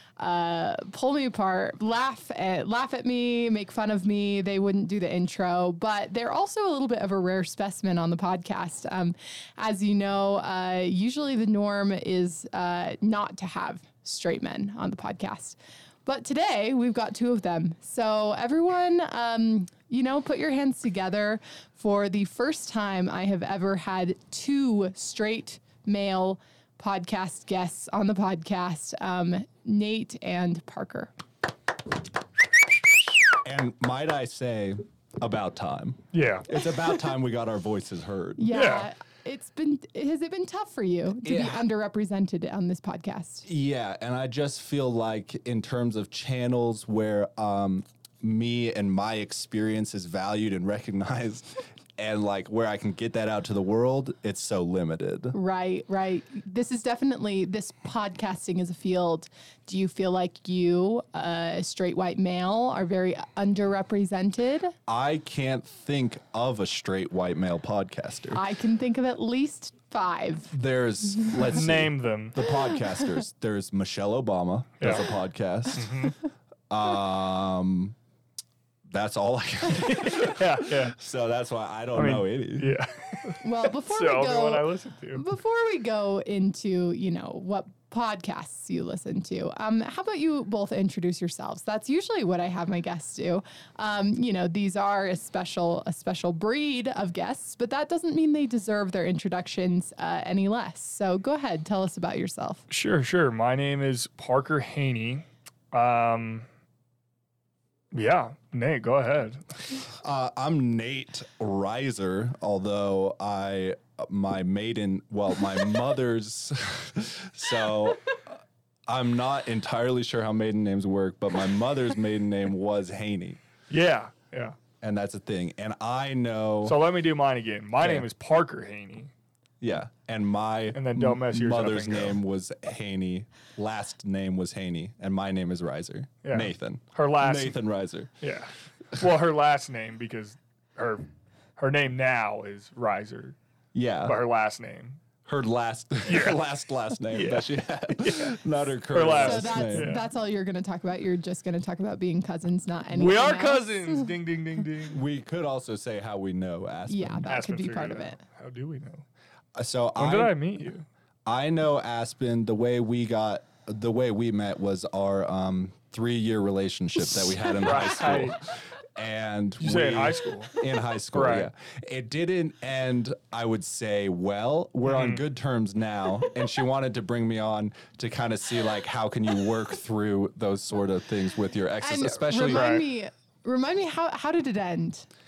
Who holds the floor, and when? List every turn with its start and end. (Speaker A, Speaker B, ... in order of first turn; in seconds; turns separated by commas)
Speaker A: 0.2-31.1, Speaker B: 33.4-38.6, Speaker C: 36.1-36.5, Speaker A: 38.4-43.5, Speaker C: 38.5-38.9, Speaker B: 41.2-41.6, Speaker B: 43.4-55.3, Speaker A: 55.3-64.7, Speaker B: 64.9-68.4, Speaker A: 68.3-70.5, Speaker B: 70.5-76.1, Speaker C: 71.4-72.4, Speaker C: 74.8-75.0, Speaker C: 75.7-76.1, Speaker B: 76.7-78.0, Speaker B: 78.9-82.8, Speaker C: 79.8-81.0, Speaker C: 81.9-85.2, Speaker A: 83.4-102.6, Speaker C: 102.7-106.5, Speaker C: 107.9-109.6, Speaker B: 110.0-118.3, Speaker B: 118.9-123.4, Speaker C: 123.7-124.5, Speaker B: 124.8-126.8, Speaker C: 126.6-129.1, Speaker B: 127.8-128.1, Speaker B: 129.6-138.1, Speaker C: 130.7-132.2, Speaker C: 136.2-137.6, Speaker C: 138.2-141.1, Speaker C: 141.6-143.3, Speaker B: 143.7-144.2, Speaker C: 144.1-145.0, Speaker B: 145.2-149.9, Speaker C: 146.1-146.4, Speaker C: 147.1-148.4, Speaker C: 148.9-150.1, Speaker A: 149.1-154.1, Speaker C: 152.9-155.0, Speaker B: 154.9-157.3, Speaker A: 156.9-158.2, Speaker C: 157.3-159.0, Speaker B: 159.6-160.3, Speaker C: 160.0-160.9, Speaker B: 161.2-182.7, Speaker C: 167.5-168.4, Speaker C: 169.6-170.5, Speaker C: 171.1-171.5, Speaker C: 174.8-175.2, Speaker A: 181.8-185.1, Speaker C: 182.4-182.8